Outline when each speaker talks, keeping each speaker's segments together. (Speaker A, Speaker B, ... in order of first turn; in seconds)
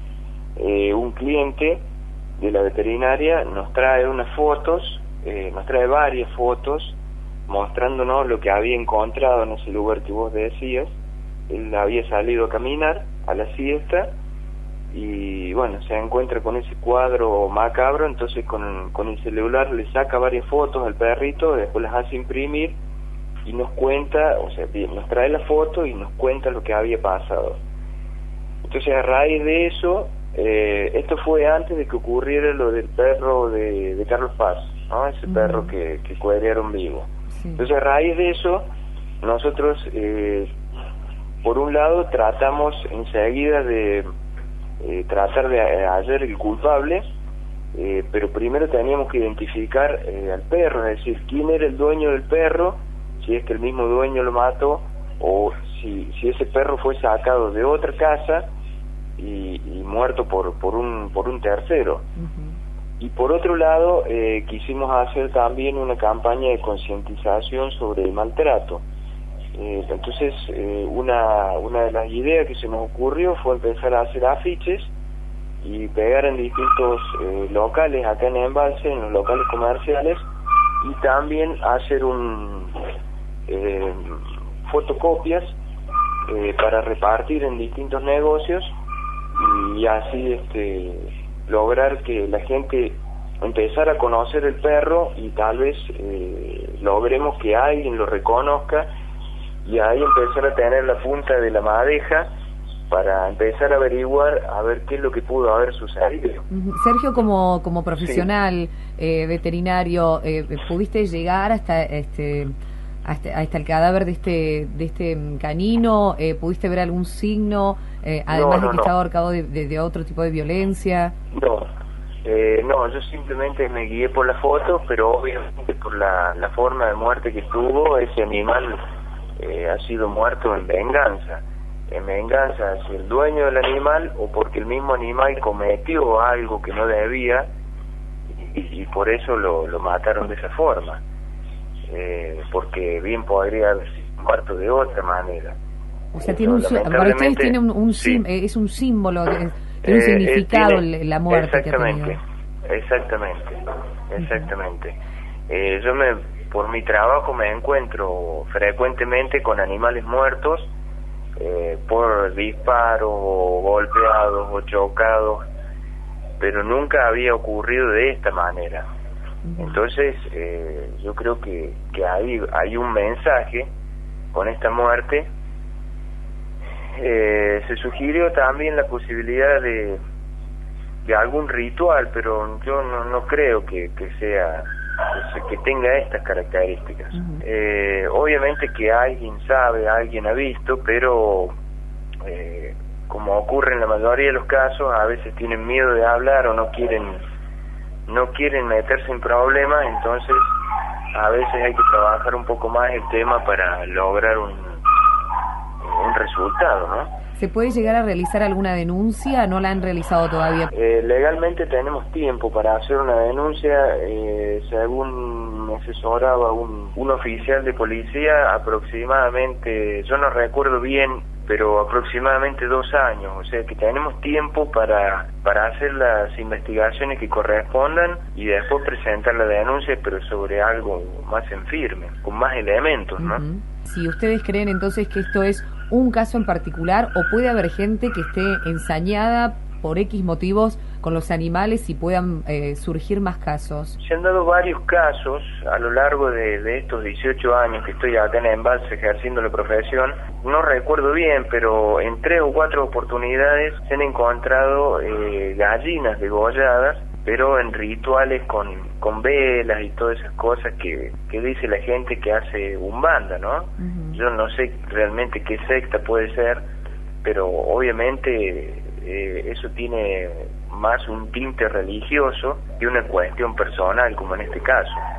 Speaker A: 0.6-1.8, 2.4-10.9, 11.5-14.1, 14.9-22.8, 23.4-27.6, 28.6-38.6, 39.2-40.5, 41.4-44.1, 44.8-47.0, 47.7-58.5, 59.2-62.1, 63.0-68.8, 69.5-74.9, 75.6-80.2, 80.8-82.8, 83.5-85.5, 86.3-88.7, 89.4-98.9, 99.7-102.3, 102.9-106.5, 108.0-108.3, 118.3-118.9, 121.3-121.7, 122.2-128.8, 129.4-137.5, 138.4-141.0, 141.9-145.6, 146.2-148.2, 149.8-153.6, 154.1-155.0, 155.5-160.7, 161.4-165.4, 166.4-168.9, 169.6-173.7, 174.3-175.3, 177.0-180.0, 181.0-191.6, 192.2-197.2, 198.1-200.5, 201.1-204.8, 205.8-207.1, 210.7-233.4, 244.0-266.6, 267.2-275.0
Speaker B: 35.3-35.7, 37.3-37.6, 62.2-62.5, 106.5-112.5, 113.0-121.1, 146.1-152.2, 154.2-154.5, 169.5-169.8, 187.2-187.4, 207.4-210.7, 233.2-244.0, 263.8-264.2